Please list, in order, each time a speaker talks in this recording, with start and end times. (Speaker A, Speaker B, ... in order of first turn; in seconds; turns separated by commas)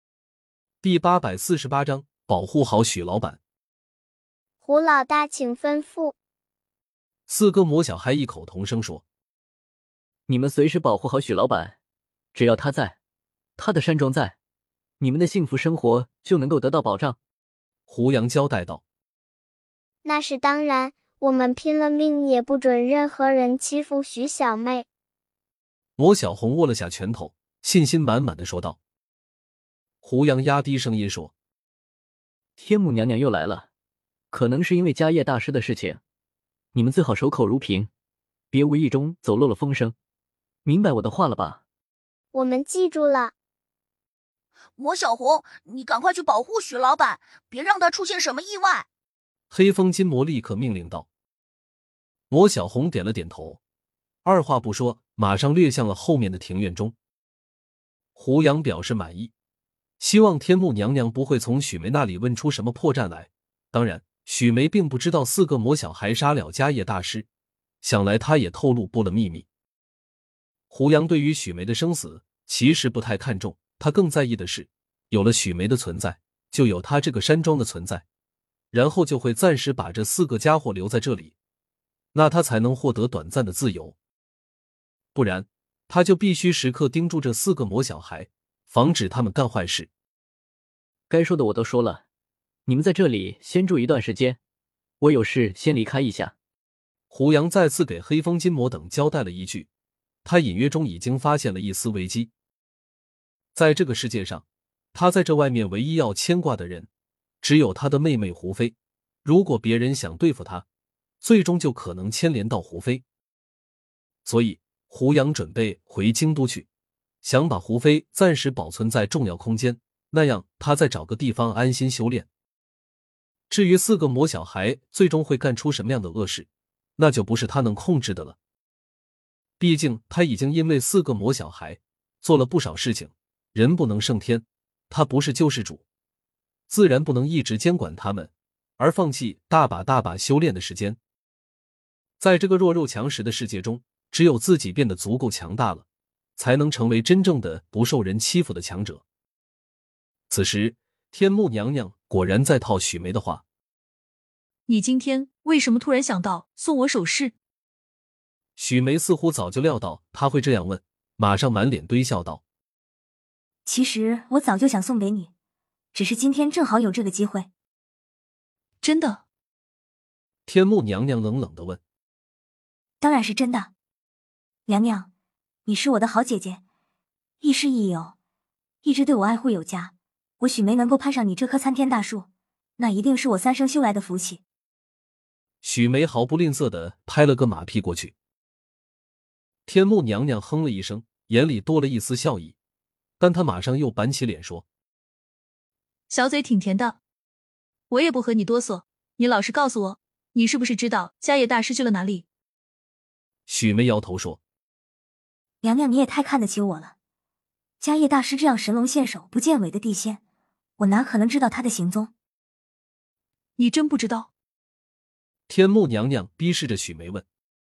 Speaker A: 0.8-3.4, Speaker B: 4.6-6.1, Speaker A: 7.3-9.0, Speaker C: 10.3-11.8, Speaker C: 12.3-13.0, Speaker C: 13.6-14.4, Speaker C: 15.0-17.2, Speaker A: 17.9-18.8, Speaker B: 20.0-24.9, Speaker A: 26.0-28.8, Speaker A: 30.0-31.3, Speaker C: 32.6-33.7, Speaker C: 34.3-36.0, Speaker C: 36.7-37.9, Speaker C: 38.5-40.0, Speaker C: 40.6-41.6, Speaker B: 42.3-43.3, Speaker D: 44.8-48.9, Speaker A: 49.5-51.1, Speaker A: 52.3-53.6, Speaker A: 54.2-56.9, Speaker A: 58.2-59.3, Speaker A: 60.0-67.3, Speaker A: 67.8-69.5, Speaker A: 70.7-78.0, Speaker A: 78.7-81.3, Speaker A: 82.1-84.0, Speaker A: 85.2-89.9, Speaker C: 91.1-92.0, Speaker C: 92.7-94.4, Speaker C: 95.0-96.3, Speaker A: 97.1-99.7, Speaker A: 100.2-102.3, Speaker A: 103.5-106.9, Speaker A: 107.4-110.7, Speaker A: 111.2-113.0, Speaker A: 114.3-116.7, Speaker A: 117.2-122.3, Speaker A: 123.5-126.5, Speaker A: 127.0-128.4, Speaker A: 129.6-135.8, Speaker A: 136.7-141.0, Speaker A: 142.2-145.8, Speaker A: 146.4-149.0, Speaker A: 150.3-153.4, Speaker E: 154.7-157.3, Speaker A: 158.6-162.4, Speaker F: 163.7-165.3, Speaker F: 165.9-167.5, Speaker E: 168.8-169.2, Speaker A: 170.5-171.8, Speaker F: 173.0-173.7, Speaker F: 174.7-175.1, Speaker F: 175.7-176.6, Speaker F: 177.4-178.2, Speaker F: 178.8-184.4, Speaker A: 185.6-188.1, Speaker A: 189.7-192.6, Speaker A: 193.2-194.7, Speaker E: 196.1-197.0, Speaker E: 197.9-202.2, Speaker A: 203.5-204.4, Speaker F: 205.6-206.9, Speaker F: 207.8-210.2, Speaker F: 210.8-212.1, Speaker E: 213.6-214.3, Speaker A: 215.5-217.2